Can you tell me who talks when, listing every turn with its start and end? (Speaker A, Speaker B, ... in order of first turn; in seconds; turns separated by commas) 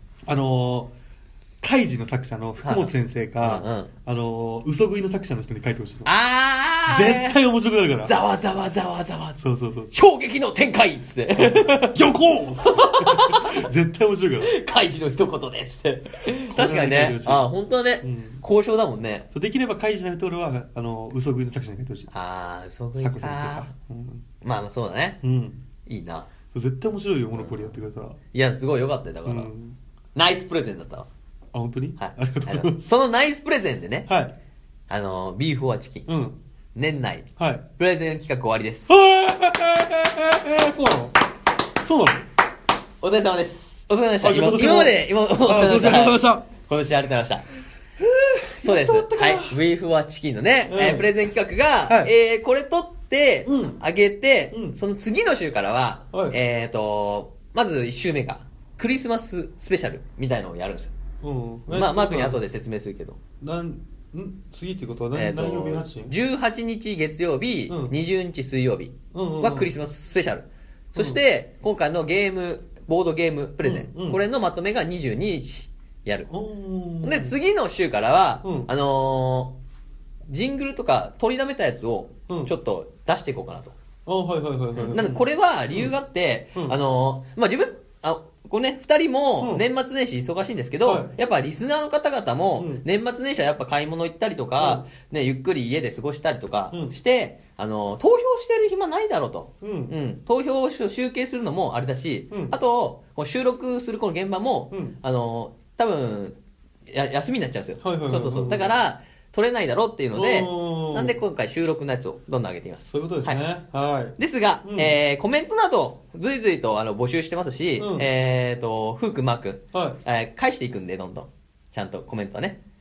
Speaker A: 0.2-0.9, Speaker A: 1.6-6.1, Speaker B: 2.6-3.9, Speaker B: 6.0-7.4, Speaker A: 6.9-8.1, Speaker B: 8.0-9.4, Speaker A: 9.4-9.9, Speaker B: 9.9-12.0, Speaker A: 11.4-14.5, Speaker B: 12.6-13.6, Speaker B: 14.4-19.3, Speaker A: 16.5-17.4, Speaker A: 18.0-18.4, Speaker A: 19.3-22.1, Speaker B: 22.1-23.7, Speaker A: 23.0-24.2, Speaker B: 24.4-25.2, Speaker A: 25.2-25.6, Speaker B: 25.9-26.3, Speaker A: 26.5-28.2, Speaker B: 28.3-29.5, Speaker A: 29.2-29.8, Speaker B: 30.1-31.1, Speaker A: 31.5-32.9, Speaker B: 32.0-34.1, Speaker A: 34.1-34.3, Speaker B: 34.9-36.1, Speaker A: 36.1-36.4, Speaker B: 36.7-38.9, Speaker A: 37.4-37.6, Speaker A: 38.9-41.2, Speaker A: 41.8-42.3, Speaker B: 43.0-47.5, Speaker A: 44.2-46.4, Speaker A: 48.0-49.6, Speaker B: 48.6-60.9, Speaker A: 50.7-51.1, Speaker A: 51.9-52.1, Speaker A: 53.4-53.8, Speaker A: 54.5-54.8, Speaker A: 56.1-56.4, Speaker A: 61.2-62.4, Speaker B: 61.7-63.2, Speaker A: 63.4-66.2, Speaker B: 65.1-76.3, Speaker A: 67.7-67.9, Speaker A: 69.1-69.7, Speaker A: 70.9-71.2, Speaker A: 73.6-74.2, Speaker A: 76.3-77.3, Speaker B: 77.0-79.5, Speaker A: 78.4-78.7, Speaker B: 80.2-83.8, Speaker A: 82.3-82.5, Speaker A: 84.0-85.9, Speaker B: 84.7-106.4, Speaker A: 90.8-91.1, Speaker A: 92.6-92.8, Speaker A: 94.6-94.9, Speaker A: 99.6-99.9, Speaker A: 102.3-102.5, Speaker A: 104.7-105.0, Speaker B: 106.9-113.4, Speaker A: 107.8-108.7, Speaker A: 110.1-111.1, Speaker A: 112.9-114.9, Speaker B: 114.2-122.6, Speaker A: 117.8-118.1